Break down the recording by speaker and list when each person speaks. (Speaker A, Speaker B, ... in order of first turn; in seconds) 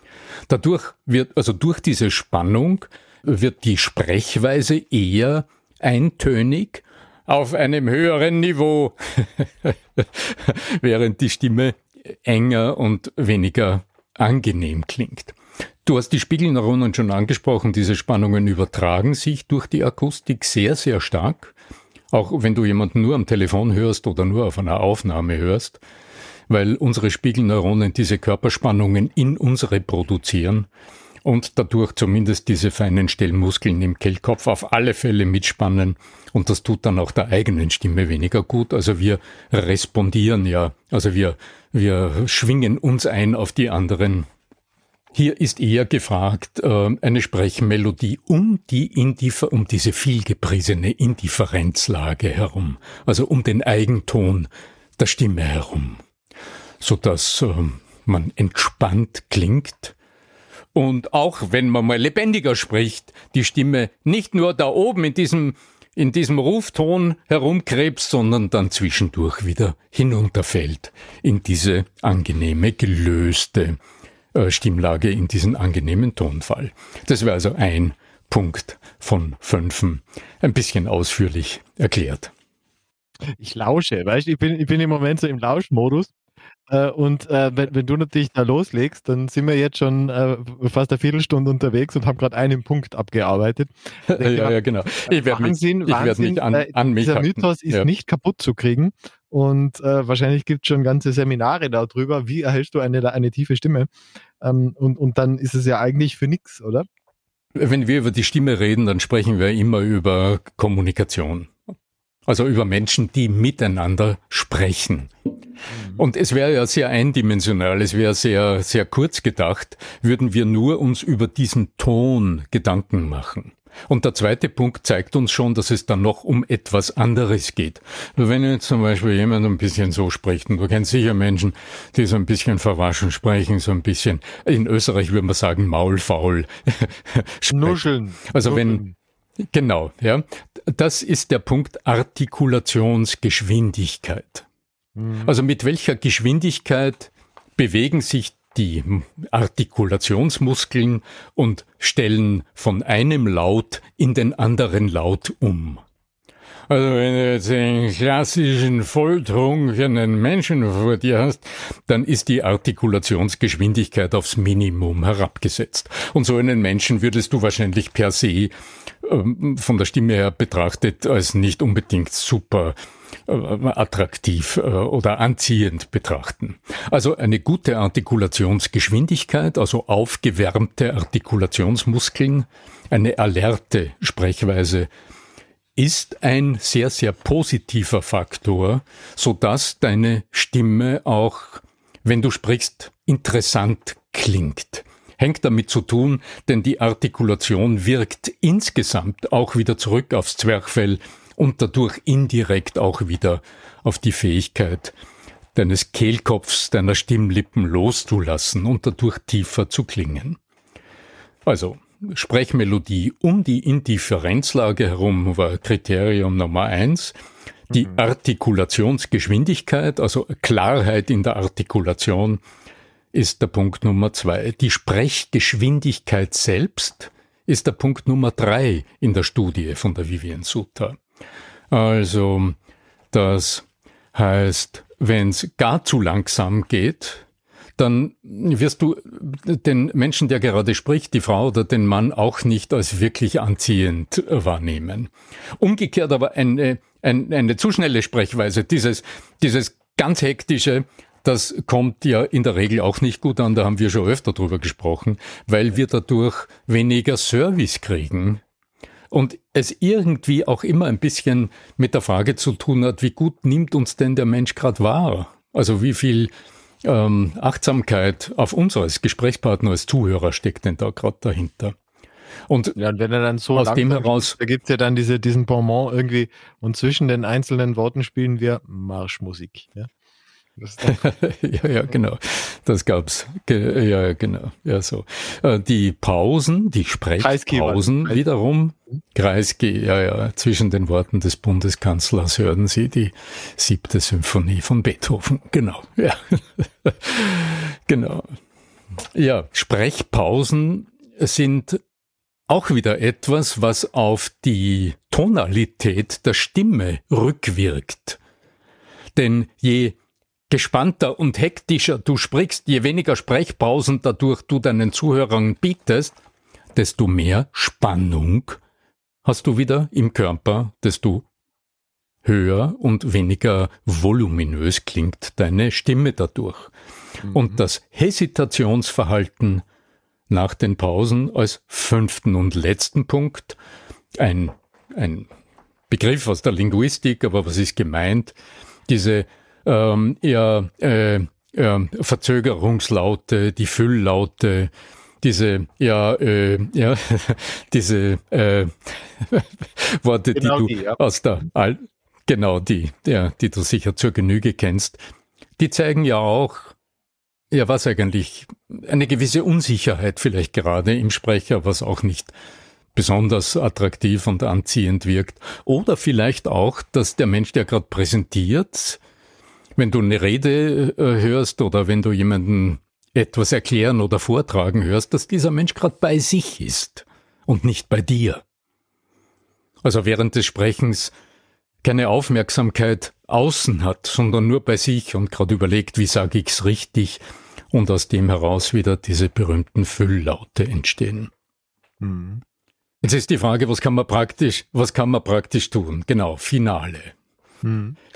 Speaker A: 0.5-21.5, 22.1-25.8, 26.5-30.7, 31.2-44.3, 45.1-56.0, 56.8-59.9, 60.7-73.8, 74.3-82.3, 94.1-97.9, 107.5-111.5, 112.3-115.1, 116.0-138.8, 139.5-144.4, 145.2-155.8, 156.7-168.5, 169.0-172.7, 173.3-184.9, 185.8-204.9, 205.5-210.4, 211.4-217.2, 217.7-222.4, 223.1-231.0, 231.7-232.6, 233.1-237.2, 237.8-258.4, 259.1-266.3, 266.8-271.8, 272.5-272.8, 273.5-274.3, 280.8-298.3, 299.1-301.8, 302.5-308.2, 309.1-309.9, 310.5-316.2, 316.7-318.6, 319.2-321.2, 322.2-326.7, 327.2-329.6, 330.3-333.6, 334.1-335.3, 335.9-338.3, 338.9-344.7, 345.2-355.0, 355.6-356.8, 357.5-362.3, 362.9-369.0, 369.8-378.4, 379.8-381.1, 381.8-387.2, 387.7-391.3, 393.0-397.1
Speaker B: 83.3-86.1, 86.7-94.5, 95.1-103.9, 104.4-106.9, 115.7-116.0, 137.5-138.9, 144.9-145.3, 272.8-279.9, 280.6-281.0, 287.2-288.2, 350.3-351.0, 392.0-392.4, 397.6-398.0